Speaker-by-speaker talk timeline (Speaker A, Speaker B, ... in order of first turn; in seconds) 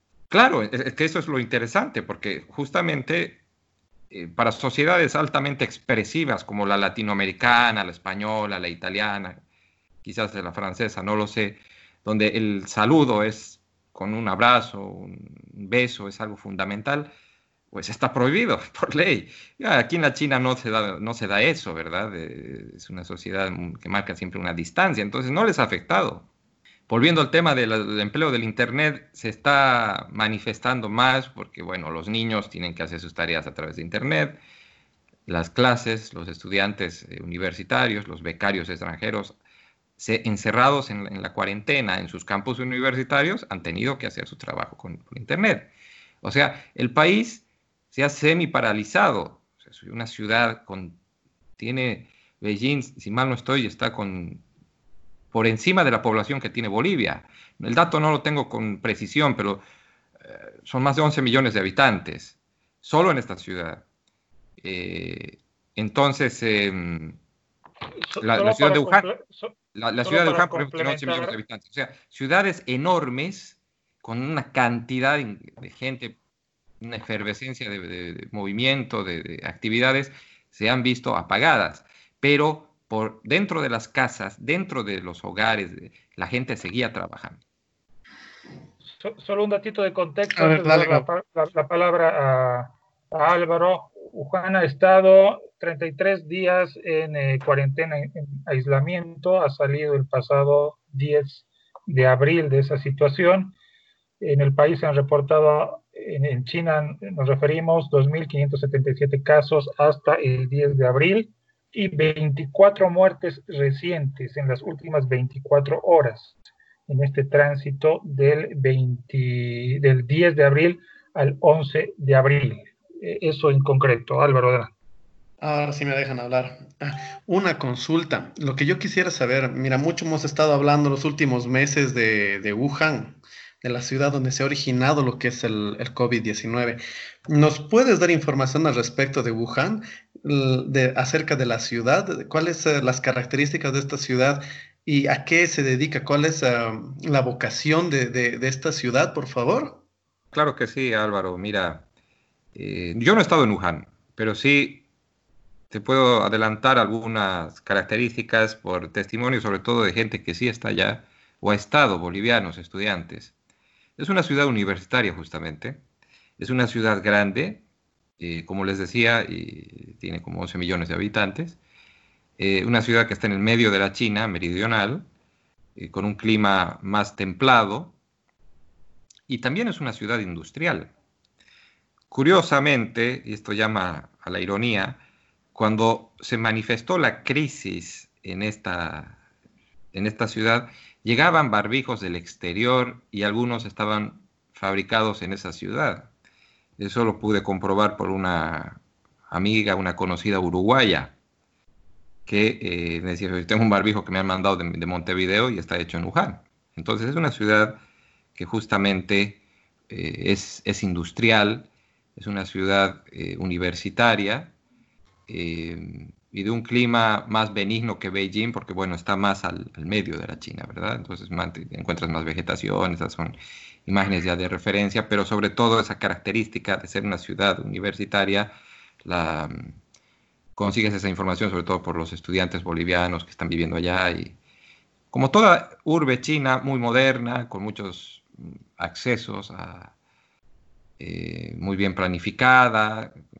Speaker A: 0.3-3.4, 4.1-9.4, 10.0-17.1, 17.7-26.3, 26.9-34.4, 35.3-39.4, 40.0-45.7, 46.2-51.0, 51.6-54.4, 55.3-59.6, 60.3-63.8, 64.6-67.2, 68.2-69.1, 69.7-76.2, 76.8-87.4, 150.3-151.8, 152.6-154.8, 155.7-163.3, 164.0-165.8, 166.4-167.6, 168.2-171.6, 172.4-175.1, 175.8-177.9, 179.3-180.9, 182.1-185.0, 185.5-189.2, 189.9-196.1, 196.8-198.8, 199.3-201.1, 202.3-207.8, 208.3-214.5, 215.3-228.5, 229.0-229.8, 230.6-234.4, 235.1-239.9, 241.0-243.2
Speaker B: 68.0-69.5, 70.0-71.4, 89.0-103.5, 104.2-116.3, 116.9-124.7
Speaker C: 90.3-91.1, 125.4-149.8